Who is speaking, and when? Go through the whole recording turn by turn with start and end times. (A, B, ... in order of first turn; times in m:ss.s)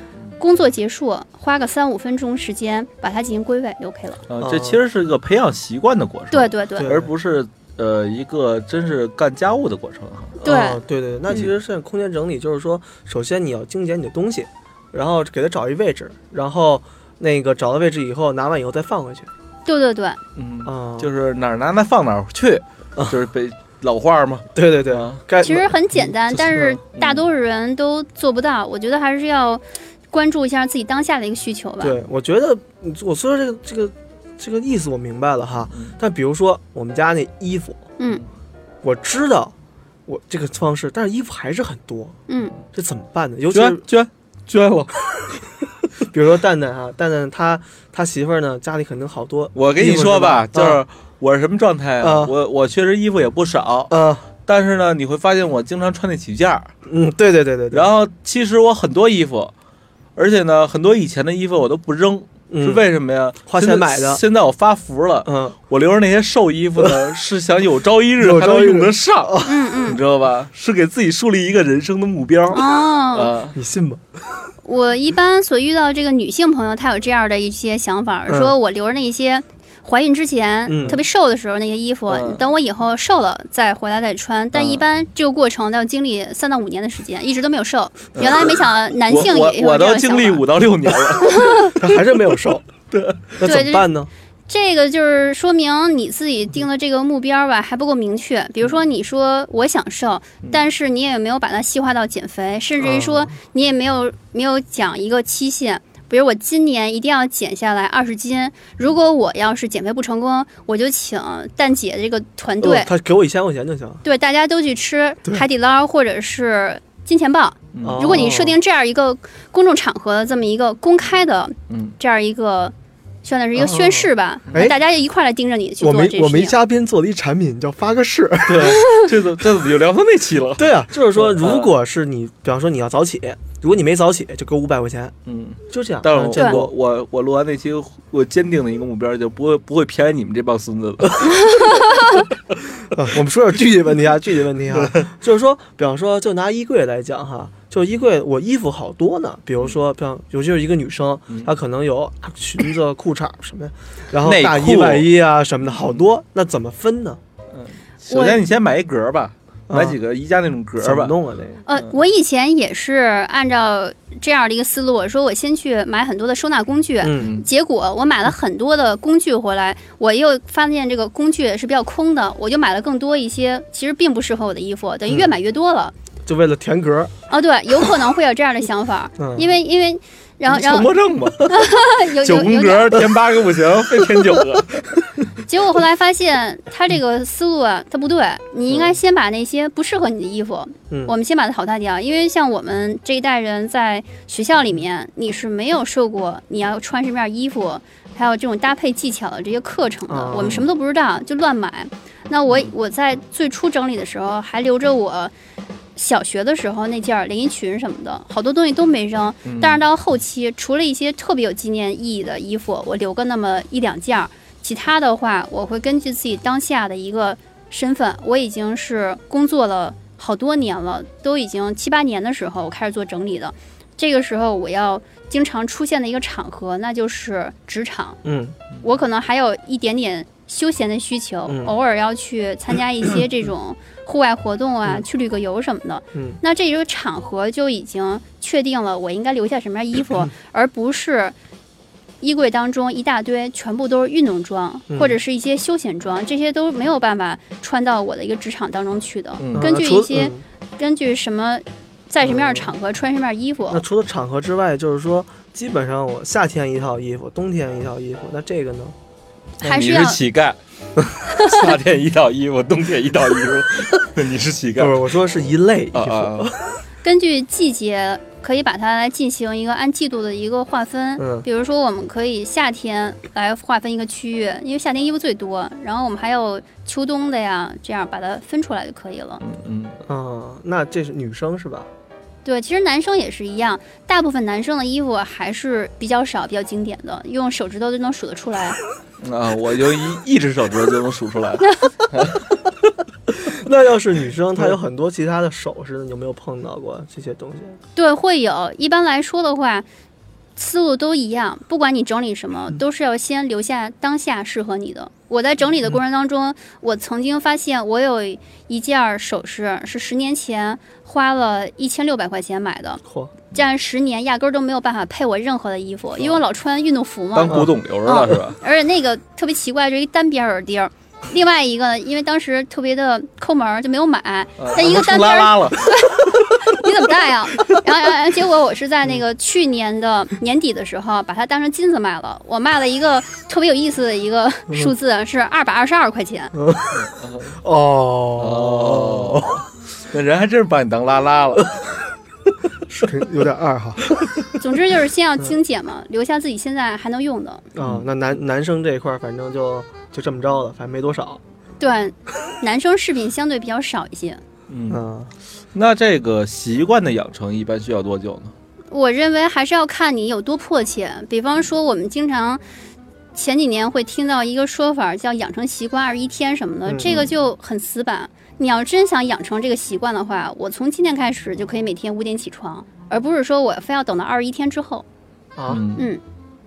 0:00.4-0:04.2 A
0:04.3-0:10.4 B
0:04.4-0:04.8 C
0:06.3-0:06.9 A
0:06.8-0:07.1 C
0:10.4-0:19.3 C
0:10.4-0:10.8 A
0:19.6-0:20.2 A
0:20.4-0:25.2 B
0:20.6-0:21.1 C
0:24.5-0:26.8 C
0:25.4-0:32.0 A
0:27.0-0:27.2 B
0:31.8-0:37.9 C
0:38.0-0:38.2 A
0:38.8-0:39.5 C
0:40.1-0:42.2 C
0:42.3-0:42.5 A
0:42.7-0:43.8 C
0:43.5-0:45.0 B
0:46.0-0:50.8 C
0:49.5-0:53.9 B
0:52.0-0:52.3 C
0:53.9-0:54.3 C
0:54.5-0:56.7 B
0:56.9-0:57.9 C
0:57.7-0:59.5 B
1:00.2-1:13.6 B
1:02.5-1:02.8 C
1:03.5-1:04.2 C
1:05.2-1:05.6 C
1:08.2-1:09.5 C
1:09.4-1:10.0 A
1:12.5-1:13.3 A
1:13.5-1:14.0 C
1:14.6-1:30.4 A
1:18.3-1:18.5 C
1:20.7-1:21.0 C
1:22.1-1:22.4 B
1:24.5-1:24.8 B
1:28.2-1:32.0 B
1:31.2-1:31.7 A
1:31.8-1:32.6 C
1:32.9-1:33.4 B
1:33.4-1:34.1 C
1:33.4-1:33.9 A
1:34.5-1:52.9 A
1:42.8-1:43.3 C
1:52.6-1:54.0 C
1:54.0-2:06.6 A
1:57.7-1:58.3 B
1:57.8-1:58.6 C
2:01.7-2:02.0 B
2:03.5-2:04.8 C
2:05.8-2:08.8 C
2:08.4-2:11.7 B
2:08.8-2:09.1 A
2:10.6-2:15.2 C
2:15.3-2:21.8 B
2:15.7-2:16.7 C
2:16.4-2:16.6 A
2:21.4-2:21.9 A
2:22.9-2:37.2 C
2:24.7-2:25.0 B
2:34.2-2:35.1 B
2:35.7-2:36.0 B
2:37.5-2:41.2 B
2:38.1-2:38.4 A
2:39.7-2:40.0 C
2:40.8-2:41.6 C
2:41.7-2:55.9 A
2:47.0-2:47.3 C
2:47.2-2:47.4 B
2:56.2-2:57.1 C
2:57.3-3:00.9 A
2:59.2-2:59.5 C
3:00.5-3:05.1 B
3:01.4-3:03.1 A
3:05.4-3:25.3 A
3:20.1-3:20.6 C
3:20.4-3:20.6 B
3:26.0-3:48.2 A
3:29.4-3:29.8 B
3:48.2-3:48.6 C
3:48.8-4:01.3 A
3:51.5-3:51.7 C
3:56.1-3:56.4 C
4:02.2-4:13.8 A
4:04.9-4:05.2 C
4:09.4-4:09.7 B
4:09.5-4:10.4 C
4:12.2-4:12.7 C
4:13.7-4:18.9 C
4:19.6-4:20.2 A
4:19.6-4:20.6 B
4:21.3-4:21.6 A
4:21.3-4:25.0 B
4:24.8-4:26.8 C
4:25.9-4:26.5 B
4:27.0-4:39.4 A
4:31.2-4:31.4 C
4:39.4-4:40.0 B
4:40.1-4:41.9 C
4:42.4-4:48.8 A
4:49.2-4:52.4 B
4:51.6-4:51.9 A
4:53.3-4:57.8 C
4:58.0-4:59.8 A
5:00.6-5:36.6 A
5:13.0-5:13.3 C
5:17.3-5:18.6 B
5:24.6-5:26.0 B
5:36.5-5:39.6 C
5:36.9-5:37.6 B
5:38.4-5:41.8 B
5:42.9-5:44.3 C
5:44.6-5:47.6 A
5:47.7-5:51.4 C
5:47.8-5:48.0 B
5:51.8-5:54.4 A
5:54.7-5:55.0 B
5:54.9-5:55.3 C
5:55.7-5:58.5 B
5:58.9-6:02.6 A
6:03.3-6:15.0 A
6:06.8-6:07.2 C
6:07.1-6:07.3 B
6:15.6-6:15.8 C
6:15.7-6:16.1 B
6:16.0-6:16.2 A